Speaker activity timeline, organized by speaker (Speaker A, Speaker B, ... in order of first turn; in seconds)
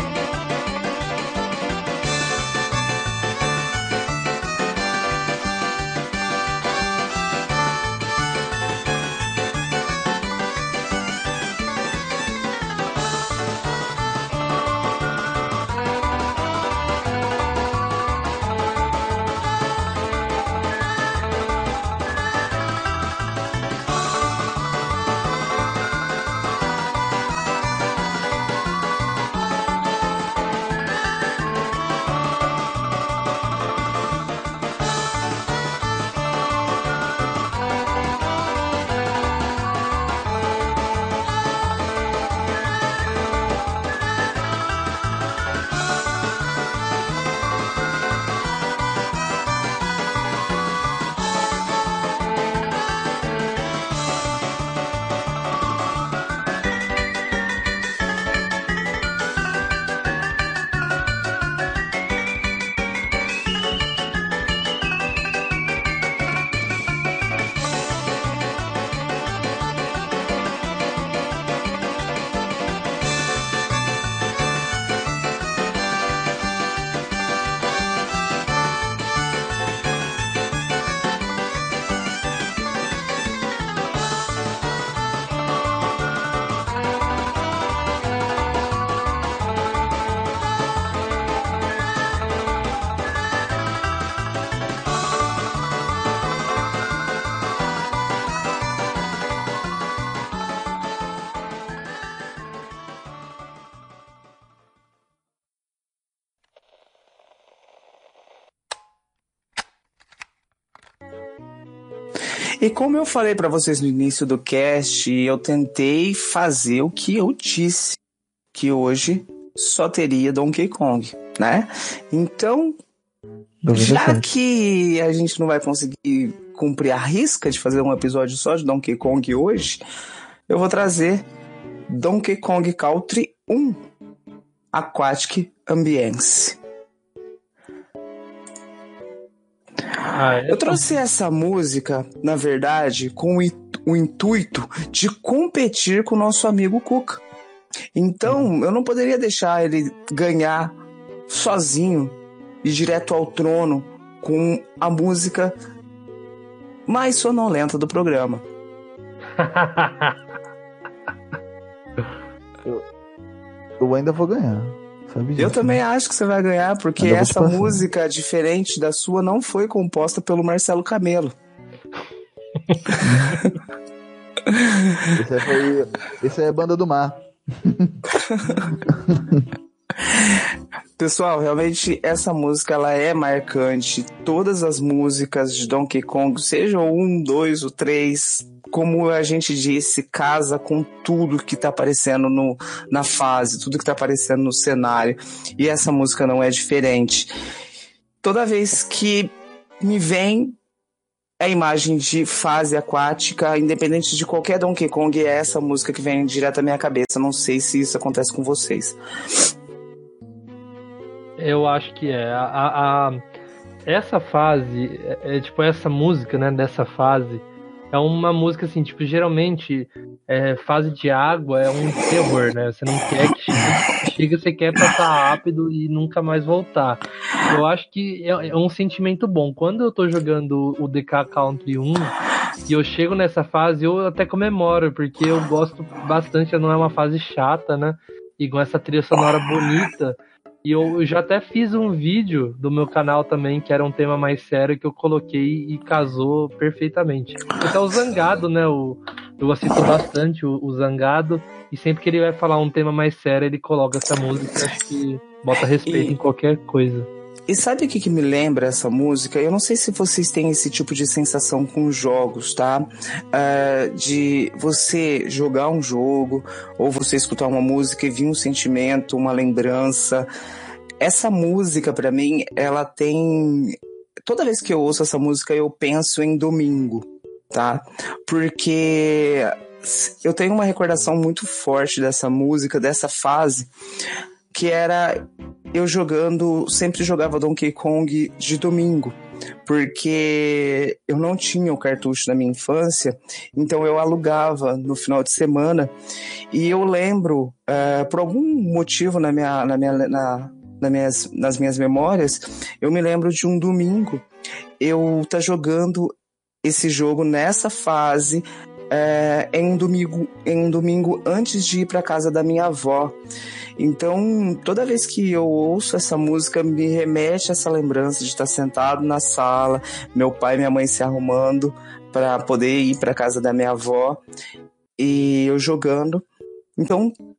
Speaker A: 112.6-118.0, 118.5-122.8, 123.7-129.8, 130.5-131.2, 131.9-133.8, 134.7-136.6, 140.5-147.2, 147.9-150.7, 151.3-155.5, 156.9-158.4, 165.4-171.3, 172.9-173.5, 174.5-175.1, 178.1-178.7, 180.0-197.3, 198.2-200.6, 201.4-209.0, 255.9-256.2, 257.5-270.3, 271.0-283.7, 284.5-295.9, 296.5-304.2, 304.8-306.1, 306.6-313.2, 313.8-324.2, 325.0-326.2, 326.8-327.1
Speaker B: 123.6-124.2, 163.8-165.8, 167.0-167.8, 173.0-173.4, 175.1-178.0, 178.7-179.5
Speaker C: 140.1-140.8, 159.3-160.2, 172.7-173.0, 211.4-213.2, 213.9-232.1, 232.7-257.1